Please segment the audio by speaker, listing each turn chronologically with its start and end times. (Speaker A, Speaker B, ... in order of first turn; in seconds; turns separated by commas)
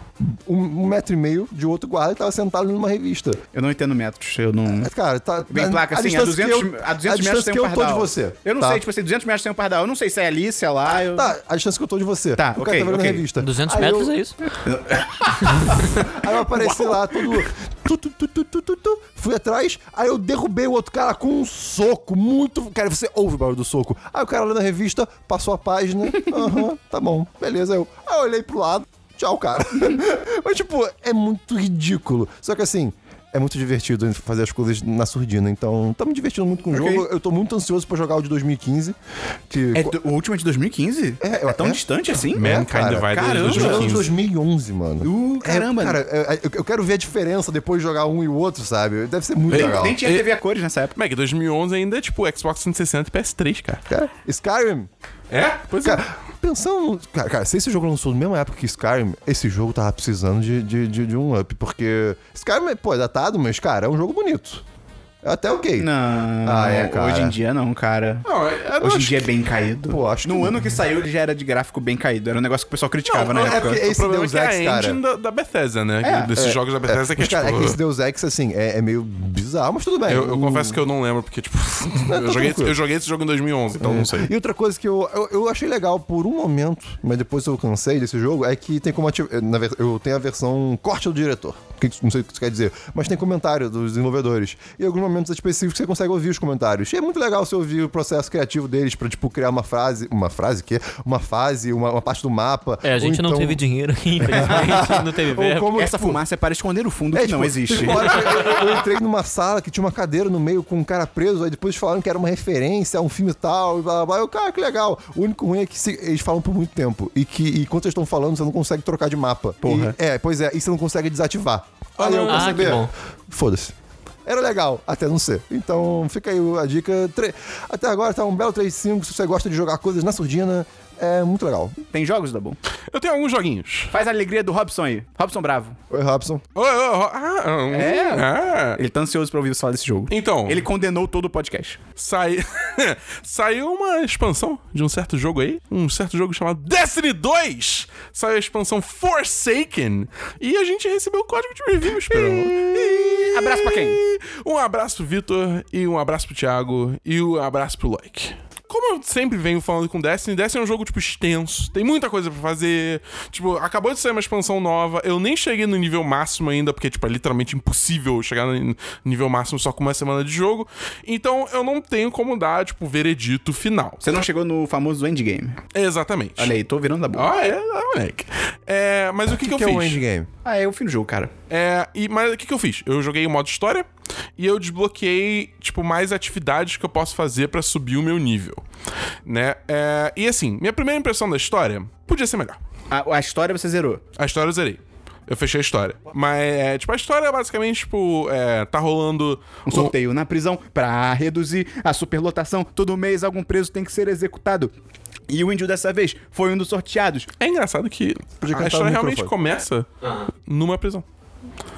Speaker A: 0.2-3.4, Speaker B: 3.5-4.9, Speaker A: 4.7-8.8, Speaker B: 5.5-11.3, Speaker A: 11.1-14.1, Speaker B: 12.4-13.3, Speaker C: 13.4-14.4, Speaker B: 14.6-17.4, Speaker A: 15.9-39.0, Speaker B: 36.7-37.1, Speaker A: 39.5-40.0, Speaker B: 39.7-42.5, Speaker A: 41.2-41.8, Speaker A: 42.3-50.0, Speaker D: 42.3-44.1, Speaker B: 43.1-44.0, Speaker B: 45.0-46.0, Speaker D: 49.5-50.3, Speaker B: 49.5-50.9, Speaker D: 51.0-53.8, Speaker A: 53.9-54.9, Speaker D: 55.3-56.0, Speaker A: 55.8-64.6, Speaker A: 65.2-65.9, Speaker B: 65.8-68.2, Speaker A: 66.4-67.3, Speaker D: 68.2-68.9, Speaker B: 68.8-73.8, Speaker A: 68.8-69.2, Speaker A: 69.9-70.7, Speaker D: 73.0-77.8, Speaker A: 73.4-75.0, Speaker B: 76.0-76.3, Speaker A: 76.4-80.8, Speaker D: 80.1-84.3, Speaker A: 82.0-82.8, Speaker A: 83.8-103.6, Speaker C: 102.8-105.7, Speaker A: 104.2-106.2, Speaker B: 104.3-104.8, Speaker B: 105.7-108.6, Speaker A: 107.1-123.7, Speaker B: 119.6-119.9, Speaker B: 122.0-122.8, Speaker C: 122.3-122.9, Speaker A: 124.2-131.8, Speaker B: 131.9-132.6, Speaker D: 132.9-133.9, Speaker B: 133.9-135.8, Speaker A: 135.9-136.4, Speaker D: 136.5-138.8, Speaker B: 137.7-141.8, Speaker D: 140.1-140.6, Speaker D: 142.0-174.0, Speaker B: 152.1-154.0, Speaker B: 174.0-175.6, Speaker D: 175.7-176.5, Speaker B: 176.4-177.3, Speaker D: 177.1-180.0, Speaker A: 179.3-180.3, Speaker B: 180.4-181.3, Speaker D: 181.5-188.6, Speaker D: 189.2-192.6, Speaker B: 192.9-194.0, Speaker D: 194.2-199.9, Speaker B: 199.7-204.7, Speaker B: 205.3-207.3, Speaker D: 207.4-209.9, Speaker A: 208.4-209.3, Speaker D: 210.4-211.0